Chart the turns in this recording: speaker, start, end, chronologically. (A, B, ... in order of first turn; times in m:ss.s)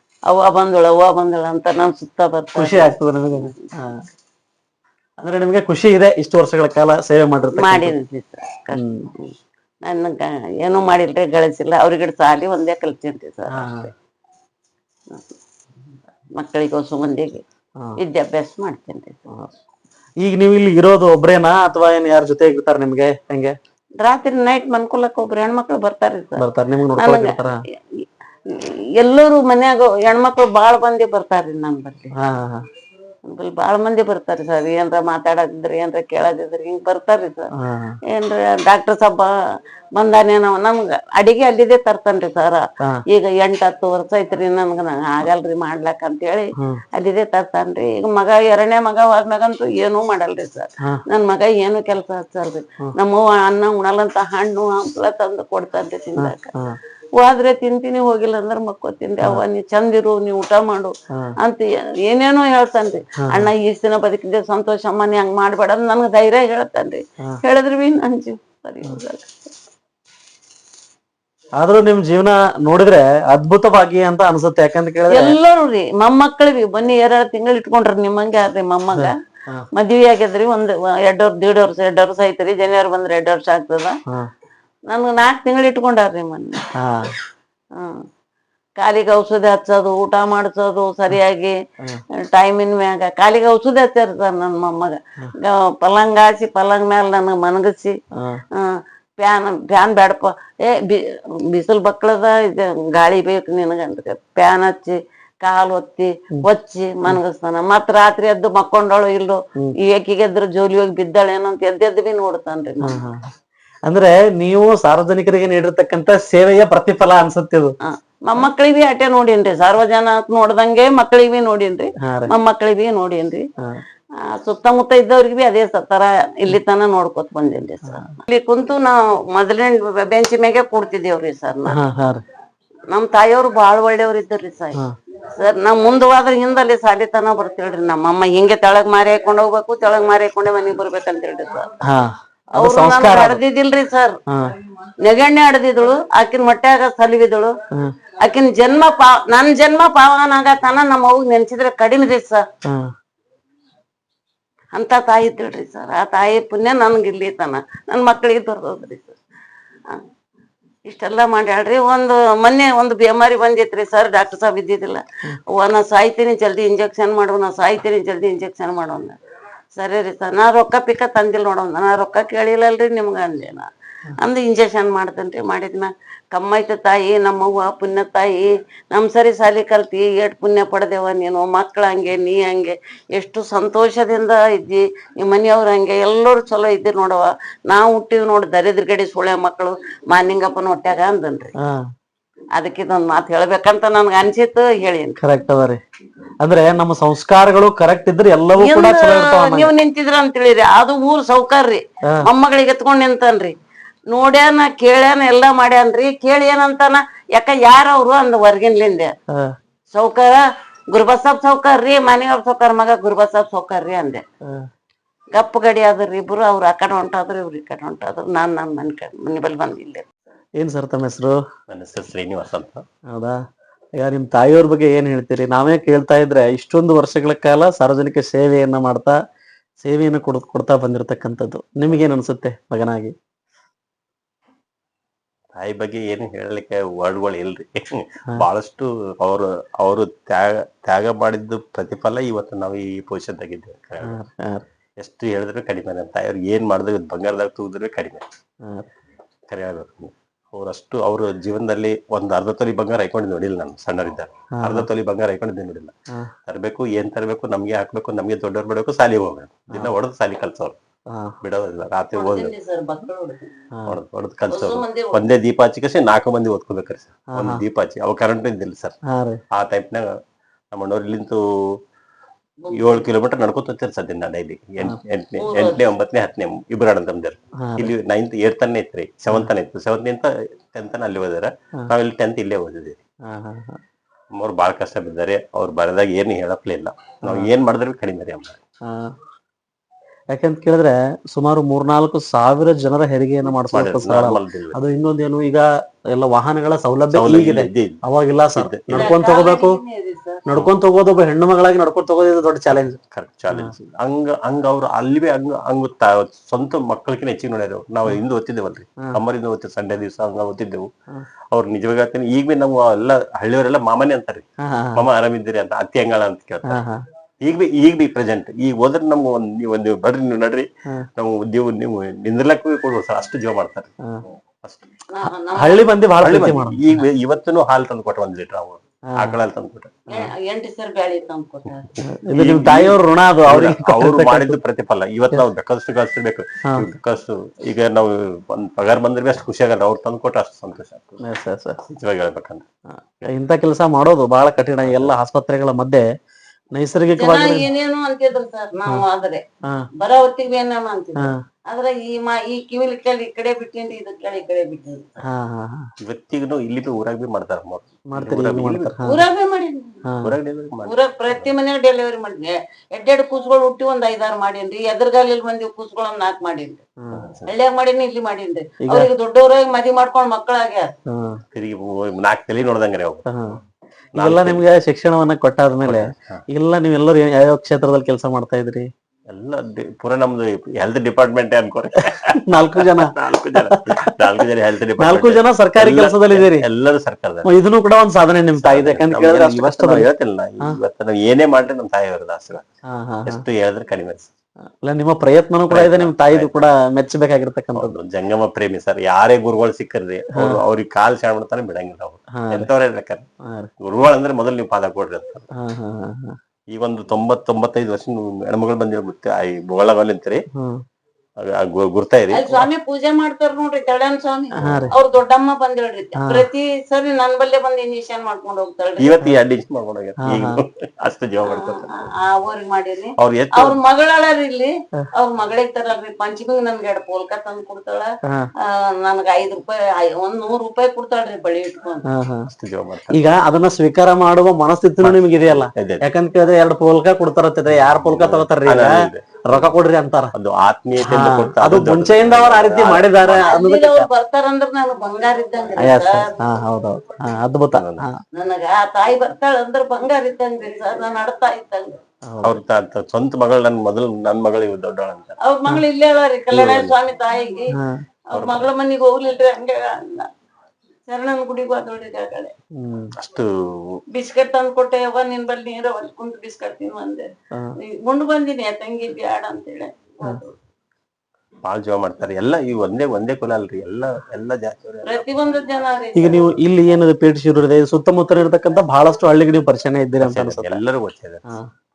0:00.3-0:03.5 A
0:02.6-0:04.0 B
0:05.2-0:07.9 B
0:07.5-0:13.9 A
0:08.7-0:09.1 B
0:13.5-0:13.9 B
0:16.4-0:17.4 A
0:18.0-0:19.3 A
0:20.2-0:23.6 B
0:24.0-0:26.4 A
0:26.4-0:27.6 B
0:27.0-0:27.4 A
0:27.9-0:32.1 A
0:32.2-0:32.6 B
0:33.3-0:37.5 A
0:37.6-0:38.0 B
0:38.1-0:39.3 A
0:39.9-0:56.6 A
0:56.2-0:56.8 B
0:57.2-1:09.3 A
1:03.2-1:03.5 B
1:11.6-1:15.4 B
1:15.1-1:19.2 A
1:18.9-1:19.7 B
1:19.7-1:24.0 A
1:24.9-1:26.6 A
1:26.8-1:27.1 B
1:27.7-1:28.0 A
1:28.8-1:31.6 A
1:32.1-1:38.0 A
1:38.2-1:38.4 B
1:38.5-1:53.0 A
1:52.8-1:53.3 B
1:53.8-1:57.7 B
1:57.8-2:03.5 A
2:02.0-2:02.3 B
2:04.2-2:11.8 A
2:07.9-2:08.1 B
2:11.7-2:12.2 B
2:12.9-2:14.8 A
2:15.3-2:21.7 A
2:21.8-2:23.4 B
2:22.5-2:24.2 A
2:24.3-2:24.5 B
2:25.0-2:27.5 A
2:28.2-2:32.4 A
2:32.6-2:32.9 B
2:34.7-2:39.2 A
2:40.9-2:49.2 A
2:49.7-3:11.5 A
3:11.6-3:11.9 B
3:12.6-3:15.2 A
3:15.2-3:15.8 B
3:16.4-3:19.7 B
3:18.6-3:23.5 A
3:24.1-3:29.1 A
3:29.3-3:29.6 B
3:29.9-3:34.2 A
3:35.3-3:40.0 A
3:40.6-3:41.4 B
3:41.7-3:42.8 C
3:43.1-3:43.4 B
3:43.9-3:49.2 B
3:49.8-3:53.1 B
3:55.5-4:04.2 C
4:04.0-4:04.6 B
4:05.0-4:08.2 C
4:09.5-4:15.9 C
4:14.6-4:14.9 B
4:16.5-4:20.8 C
4:21.1-4:21.3 B
4:21.4-4:22.5 C
4:22.1-4:23.5 A
4:23.9-4:29.0 C
4:24.5-4:25.2 A
4:27.3-4:27.6 B
4:29.1-4:29.4 B
4:29.5-4:30.2 C
4:30.7-4:31.8 C
4:32.6-4:33.0 A
4:32.7-4:43.0 C
4:35.4-4:35.9 A
4:37.6-4:37.9 B
4:43.2-4:43.8 B
4:44.3-4:48.6 C
4:47.2-4:47.5 B
4:48.8-4:49.1 B
4:50.3-4:59.8 B
4:53.7-4:54.8 C
4:57.1-4:58.0 C
4:58.6-4:59.1 C
4:58.9-5:00.4 A
5:00.4-5:03.0 B
5:03.1-5:10.9 C
5:11.5-5:16.8 C
5:14.6-5:15.0 B
5:16.6-5:17.0 B
5:17.4-5:23.9 C
5:24.6-5:24.9 C
5:25.1-5:25.9 A
5:25.6-5:27.0 B
5:26.2-5:30.0 C
5:29.1-5:29.4 B
5:30.1-5:31.9 A
5:32.0-5:41.2 C
5:32.0-5:34.6 B
5:41.2-5:41.8 B
5:41.8-5:42.6 C
5:42.9-5:46.1 B
5:44.8-5:45.1 C
5:46.7-5:47.7 B
5:47.2-5:49.4 A
5:50.0-5:55.2 A
5:55.2-5:55.9 B
5:56.0-5:59.0 C
5:58.1-5:59.2 B
5:59.0-6:00.0 A
6:00.1-6:00.4 B
6:00.2-6:01.5 C
6:00.8-6:06.8 A
6:07.0-6:07.3 B
6:07.1-6:07.5 C
6:07.4-6:10.9 A
6:08.8-6:09.1 B
6:11.1-6:11.4 B
6:11.5-6:13.6 C
6:13.3-6:13.6 B
6:14.1-6:14.6 C
6:14.1-6:18.9 B
6:15.8-6:16.4 C
6:19.3-6:27.5 C
6:22.1-6:24.4 B
6:25.0-6:26.6 B
6:27.4-6:30.0 B
6:28.6-6:32.6 C
6:32.9-6:33.4 B
6:33.2-6:34.3 C
6:34.8-6:37.9 B
6:35.7-6:36.5 C
6:37.7-6:43.2 C
6:42.4-6:42.7 B
6:43.8-6:45.5 C
6:45.6-6:46.4 B
6:46.7-6:50.4 C
6:50.5-6:50.8 B
6:51.4-6:52.7 C
6:52.3-6:59.2 A
6:54.6-6:54.9 B
6:54.6-6:54.9 C
6:56.2-6:56.5 B
6:59.0-7:01.9 C
7:00.2-7:00.6 B
7:01.4-7:12.1 A
7:03.2-7:03.8 C
7:12.1-7:12.5 B
7:12.5-7:13.2 C
7:13.1-7:20.3 B
7:15.0-7:16.0 C
7:17.7-7:19.7 C
7:20.3-7:23.5 C
7:21.0-7:24.1 B
7:23.3-7:26.4 A
7:25.8-7:28.2 B
7:27.7-7:28.0 C
7:28.3-7:32.0 A
7:32.2-7:32.6 B
7:32.4-7:35.4 C
7:35.4-7:37.8 A
7:36.5-7:36.9 C
7:37.7-7:38.0 B
7:38.3-7:40.3 A
7:38.3-7:38.7 C
7:41.1-7:42.5 A
7:42.7-7:43.1 B
7:43.2-7:44.0 C
7:44.1-7:50.6 A
7:51.6-7:55.5 C
7:55.0-7:56.5 A
7:56.1-8:00.8 B
8:00.2-8:01.5 C